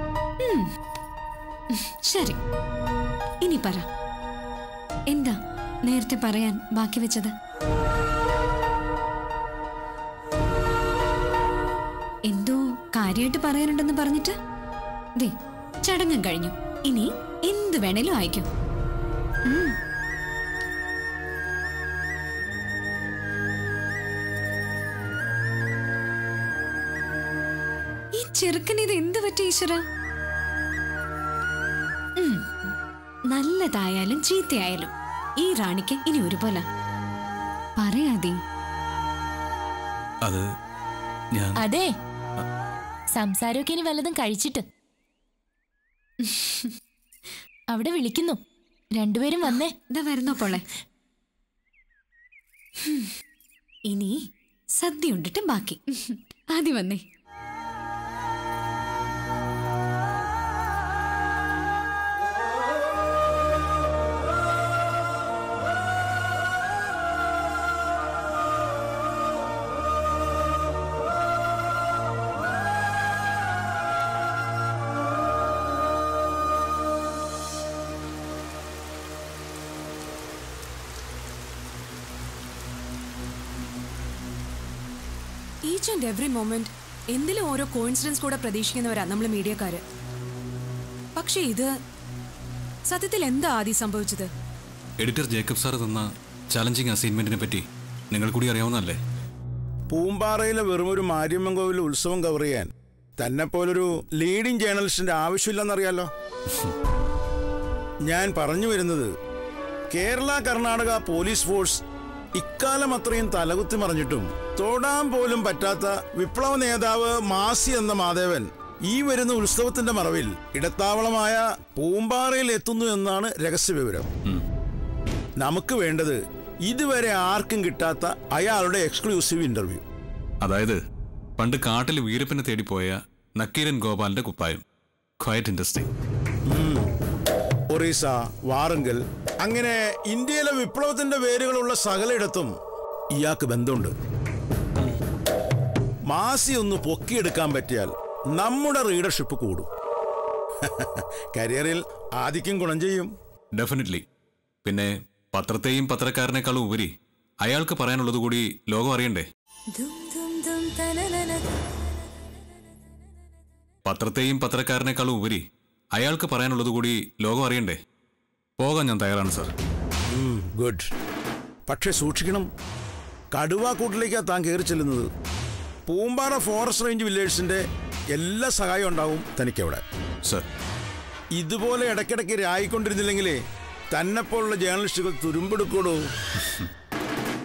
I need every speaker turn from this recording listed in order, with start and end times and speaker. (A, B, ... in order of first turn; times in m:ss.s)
0:00.4-0:00.7 A
0:01.8-0:02.4 A
0:03.4-0:03.8 A
0:05.1-0:07.3 A
0:12.3-0:14.4 A
0:15.2-0:18.5 A
0:19.4-0:19.8 A
0:28.1-0:29.8 A
0:32.2-0:32.4 A
0:33.3-0:36.6 A
0:37.8-0:38.4 A
0:41.3-0:41.6 B
0:41.6-0:41.9 C
0:43.1-0:44.6 C
0:46.2-0:46.7 A
0:47.7-0:48.4 C
0:48.9-0:49.7 C
0:49.9-0:50.6 A
0:53.9-0:54.2 A
0:54.8-0:57.0 A
1:25.6-1:29.8 D
1:31.2-1:31.7 D
1:32.9-1:34.3 D
1:35.0-1:39.0 B
1:39.9-1:46.1 E
1:48.1-1:49.1 E
1:49.9-1:51.8 E
1:52.4-2:04.1 E
2:05.4-2:09.8 E
2:10.4-2:10.8 B
2:11.4-2:14.6 B
2:15.2-2:15.9 B
2:16.5-2:16.9 E
2:17.7-2:22.5 E
2:23.2-2:23.9 E
2:26.1-2:29.7 E
2:30.6-2:33.1 E
2:33.5-2:34.0 B
2:34.6-2:36.9 B
2:37.4-2:39.2 B
2:39.7-2:41.4 A
2:43.8-2:45.4 B
2:45.9-2:47.8 B
2:48.6-2:49.5 B
2:50.1-2:50.9 E
2:51.7-2:52.5 E
2:53.3-2:55.1 E
2:55.9-2:59.8 E
3:01.4-3:03.4 E
3:03.9-3:06.0 E